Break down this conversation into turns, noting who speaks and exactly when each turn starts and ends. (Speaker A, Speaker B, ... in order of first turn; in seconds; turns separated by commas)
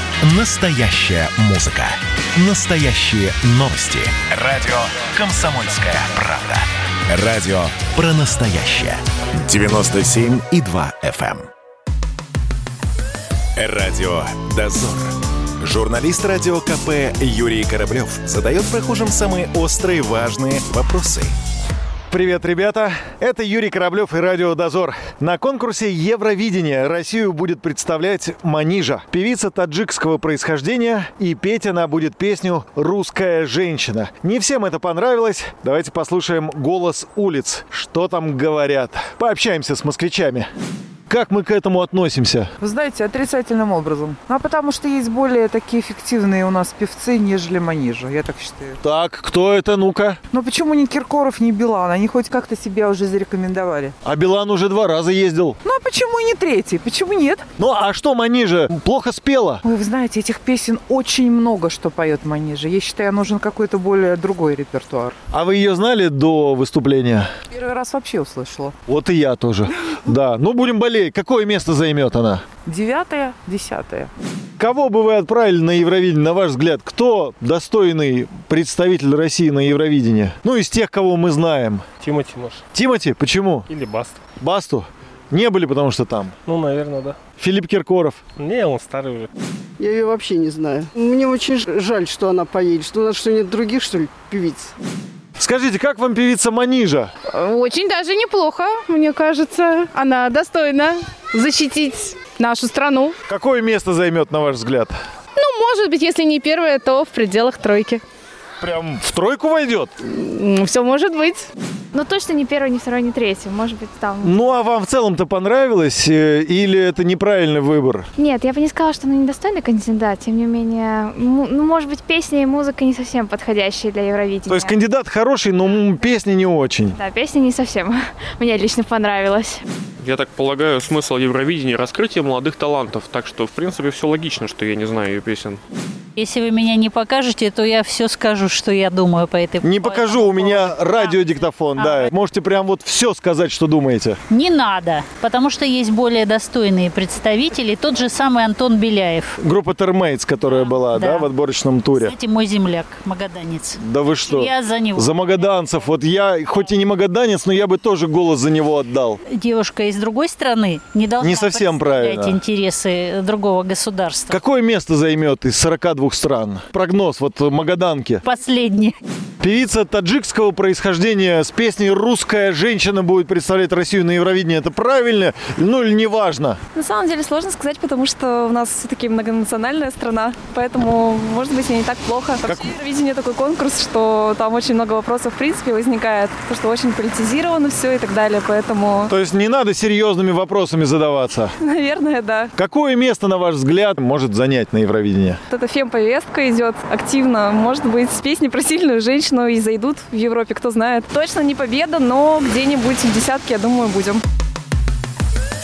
Speaker A: 0.2-11.5, Speaker A: 13.5-21.3, Speaker B: 22.1-40.5, Speaker B: 41.1-42.5, Speaker C: 42.6-48.8, Speaker B: 48.8-50.2, Speaker C: 50.3-53.9, Speaker B: 54.0-55.6, Speaker C: 55.6-57.5, Speaker B: 57.6-59.6, Speaker C: 59.6-65.2, Speaker B: 65.3-67.3, Speaker C: 67.5-68.7, Speaker B: 68.9-72.5, Speaker C: 72.7-74.1, Speaker B: 74.6-81.8, Speaker D: 82.0-82.6, Speaker B: 82.7-83.7, Speaker D: 83.7-84.2, Speaker B: 84.4-86.3, Speaker D: 86.5-87.2, Speaker B: 87.4-88.2, Speaker D: 88.4-89.3, Speaker E: 89.8-94.7, Speaker B: 95.4-97.1, Speaker F: 97.3-103.2, Speaker B: 103.3-104.9, Speaker F: 105.3-108.0, Speaker B: 108.6-109.9, Speaker F: 110.0-111.5, Speaker G: 111.9-114.5, Speaker B: 114.2-118.1, Speaker G: 118.2-124.7, Speaker B: 124.5-127.0, Speaker G: 126.9-129.6, Speaker H: 130.0-135.6, Speaker I: 136.2-141.2, Speaker B: 139.6-144.2, Speaker I: 141.8-142.1, Speaker I: 144.3-149.3, Speaker B: 149.4-152.1, Speaker I: 150.5-151.3, Speaker I: 151.9-155.5, Speaker B: 153.8-159.2, Speaker I: 159.3-164.4, Speaker B: 161.2-162.4, Speaker B: 164.3-168.2, Speaker I: 168.2-168.9, Speaker B: 169.4-176.6, Speaker J: 176.7-189.1, Speaker B: 189.1-191.5, Speaker J: 191.6-192.5, Speaker B: 192.5-195.4, Speaker J: 195.5-204.2